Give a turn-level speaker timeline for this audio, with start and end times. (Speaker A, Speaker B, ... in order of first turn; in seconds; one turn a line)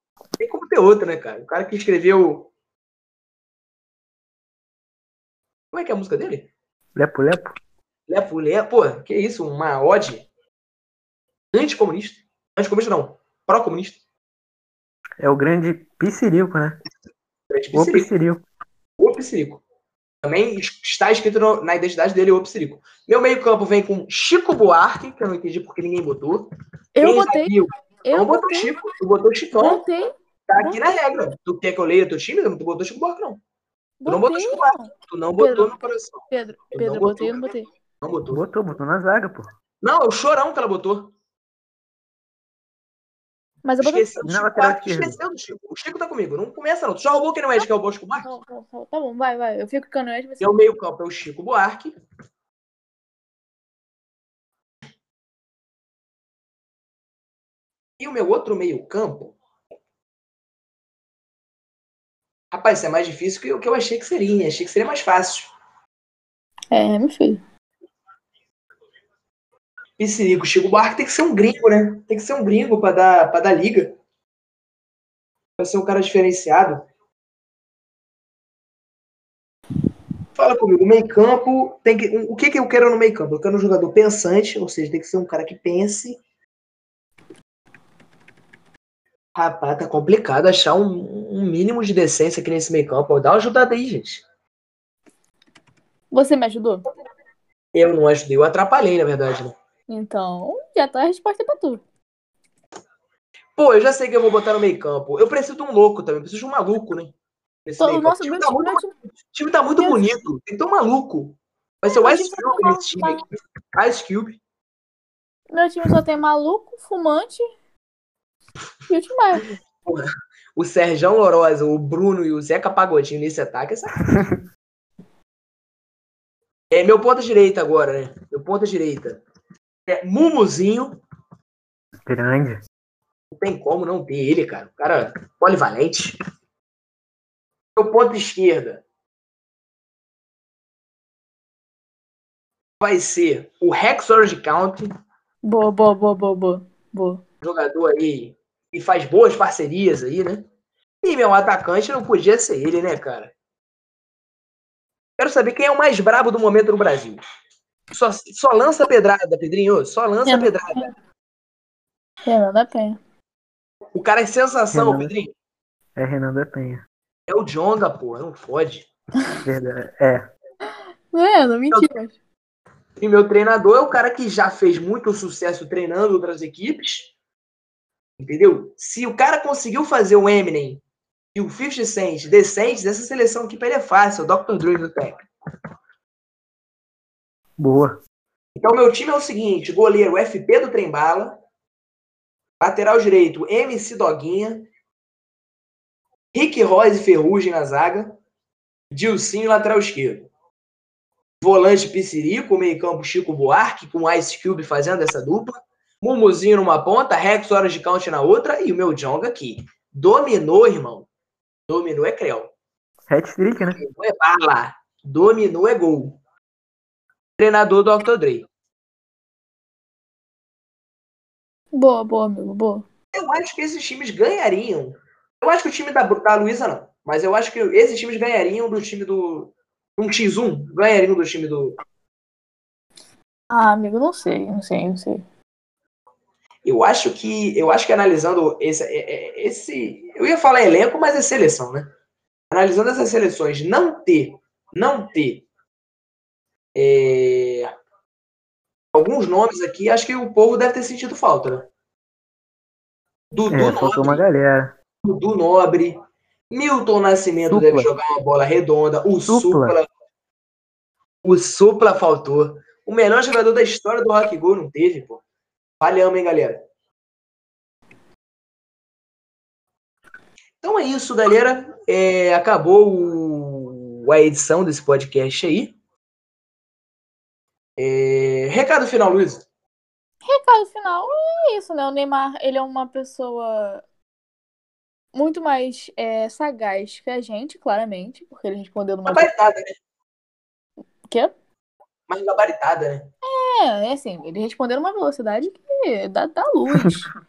Speaker A: 0.4-2.5
Speaker A: 5.7-6.5
Speaker B: 6.9-7.5
Speaker A: 8.1-10.3
Speaker A: 11.5-14.0
Speaker B: 15.2-16.8
Speaker A: 17.5-18.1
Speaker B: 17.7-18.4
Speaker A: 19.0-19.6
Speaker A: 20.2-26.5
Speaker C: 26.9-28.8
Speaker A: 27.0-29.8
Speaker C: 29.5-30.8
Speaker A: 30.5-33.4
Speaker C: 34.0-35.8
Speaker A: 34.1-38.4
Speaker C: 36.3-37.7
Speaker B: 38.3-39.5
Speaker A: 39.8-41.1
Speaker C: 43.6-44.1
Speaker A: 43.8-48.3
Speaker B: 44.2-45.2
Speaker C: 48.2-50.6
Speaker A: 50.4-51.9
Speaker A: 58.0-59.4
Speaker A: 62.5-65.5
Speaker C: 66.7-67.4
Speaker A: 70.0-74.0
Speaker A: 75.6-76.8
Speaker A: 80.3-86.2
Speaker A: 89.3-94.2
Speaker C: 96.1-96.8
Speaker A: 97.7-99.5
Speaker C: 99.9-101.8
Speaker A: 103.6-107.1
Speaker A: 107.6-114.4
Speaker C: 107.8-108.9
Speaker C: 109.8-110.0
Speaker C: 111.8-113.2
Speaker C: 115.5-117.4
Speaker C: 118.9-119.5
Speaker A: 119.8-124.0
Speaker B: 124.1-124.4
Speaker A: 126.7-129.2
Speaker A: 129.9-131.0
Speaker B: 132.0-132.6
Speaker A: 133.3-136.2
Speaker A: 137.8-138.8
Speaker A: 142.8-144.9
Speaker C: 145.4-147.2
Speaker A: 147.4-150.4
Speaker A: 151.0-153.3
Speaker A: 155.2-157.2
Speaker A: 157.9-160.9
Speaker C: 160.2-160.9
Speaker C: 162.2-163.0
Speaker A: 163.9-165.3
Speaker B: 164.7-165.1
Speaker B: 165.9-166.8
Speaker A: 167.3-168.9
Speaker B: 169.4-170.2
Speaker C: 171.1-172.1
Speaker A: 173.0-177.1
Speaker A: 178.2-180.8
Speaker A: 181.3-185.3
Speaker B: 187.6-188.0
Speaker A: 188.6-191.4
Speaker A: 192.6-194.7
Speaker A: 196.3-198.2
Speaker A: 198.9-200.3
Speaker A: 201.4-211.1
Speaker A: 211.7-212.5
Speaker B: 213.1-213.8
Speaker A: 213.8-216.2
Speaker A: 217.4-218.5
Speaker C: 221.7-222.8
Speaker A: 223.1-231.8
Speaker C: 233.5-235.2
Speaker A: 236.6-241.9
Speaker A: 242.5-245.4
Speaker A: 246.8-247.7
Speaker A: 248.9-251.7
Speaker A: 253.3-254.2
Speaker B: 253.5-254.7
Speaker A: 255.0-256.0
Speaker A: 256.5-259.9
Speaker B: 257.5-257.9
Speaker B: 259.2-259.8
Speaker A: 261.2-265.2
Speaker A: 265.8-266.6
Speaker A: 270.6-275.7
Speaker A: 277.8-279.4
Speaker C: 280.2-283.8
Speaker C: 285.1-289.3
Speaker A: 289.1-289.7
Speaker A: 292.1-293.1
Speaker C: 293.2-297.1